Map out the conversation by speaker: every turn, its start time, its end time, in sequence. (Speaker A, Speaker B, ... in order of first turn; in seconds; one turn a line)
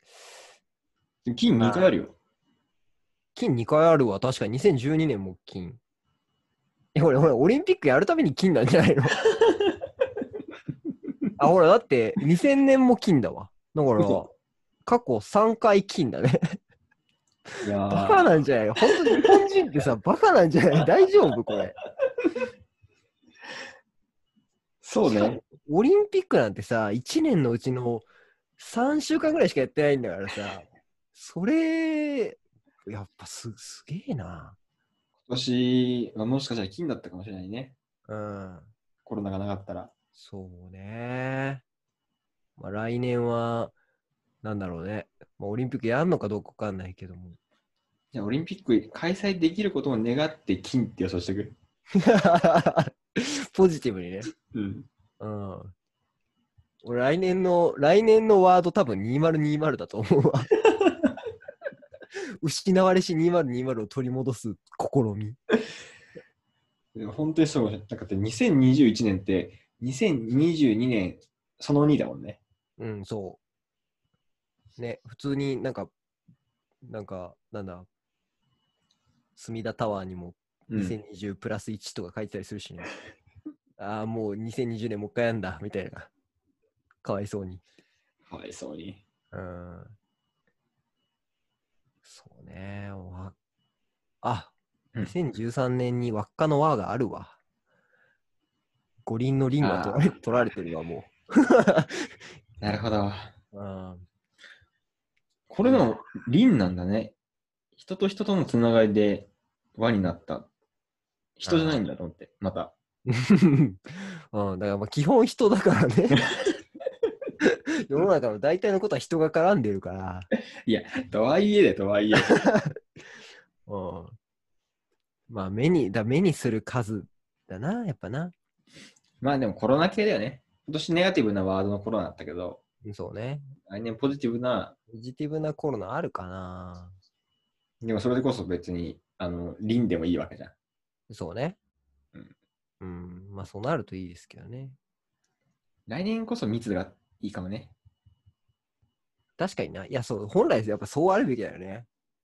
Speaker A: 1.3-2.1
Speaker B: 1.6-1.9
Speaker B: 3.4-5.8
Speaker B: 6.9-9.2
Speaker A: 9.3-9.8
Speaker B: 11.4-14.3
Speaker B: 14.9-16.6
Speaker B: 17.5-21.8
Speaker A: 17.6-19.3
Speaker A: 24.8-25.4
Speaker B: 25.1-28.1
Speaker B: 28.6-34.6
Speaker A: 35.3-37.8
Speaker B: 38.1-38.7
Speaker A: 39.0-39.9
Speaker B: 40.1-41.6
Speaker B: 42.6-43.7
Speaker B: 44.4-47.4
Speaker A: 48.1-51.5
Speaker B: 51.9-54.3
Speaker A: 54.5-54.9
Speaker B: 55.2-55.7
Speaker B: 56.8-60.5
Speaker B: 62.4-65.4
Speaker A: 67.0-72.4
Speaker B: 72.8-73.4
Speaker B: 74.8-75.9
Speaker B: 76.8-77.9
Speaker B: 79.4-82.9
Speaker A: 80.7-81.0
Speaker B: 83.8-86.1
Speaker B: 87.0-87.6
Speaker A: 88.3-89.0
Speaker B: 89.3-89.9
Speaker B: 92.0-93.3
Speaker B: 94.2-97.4
Speaker B: 99.0-102.2
Speaker A: 99.6-100.2
Speaker A: 102.6-103.3
Speaker B: 103.5-104.0
Speaker A: 105.5-107.2
Speaker A: 107.8-110.5
Speaker A: 111.4-112.7
Speaker B: 111.5-111.8
Speaker B: 113.1-116.2
Speaker A: 116.1-116.5
Speaker B: 117.4-120.3
Speaker A: 120.7-122.4
Speaker B: 122.2-122.8
Speaker B: 123.7-124.2
Speaker B: 125.3-128.3
Speaker A: 129.2-132.6
Speaker B: 132.8-133.5
Speaker A: 133.7-134.8
Speaker B: 134.9-136.9
Speaker A: 137.8-140.5
Speaker B: 141.1-141.6
Speaker B: 142.8-144.8
Speaker A: 145.9-147.7
Speaker B: 149.4-151.9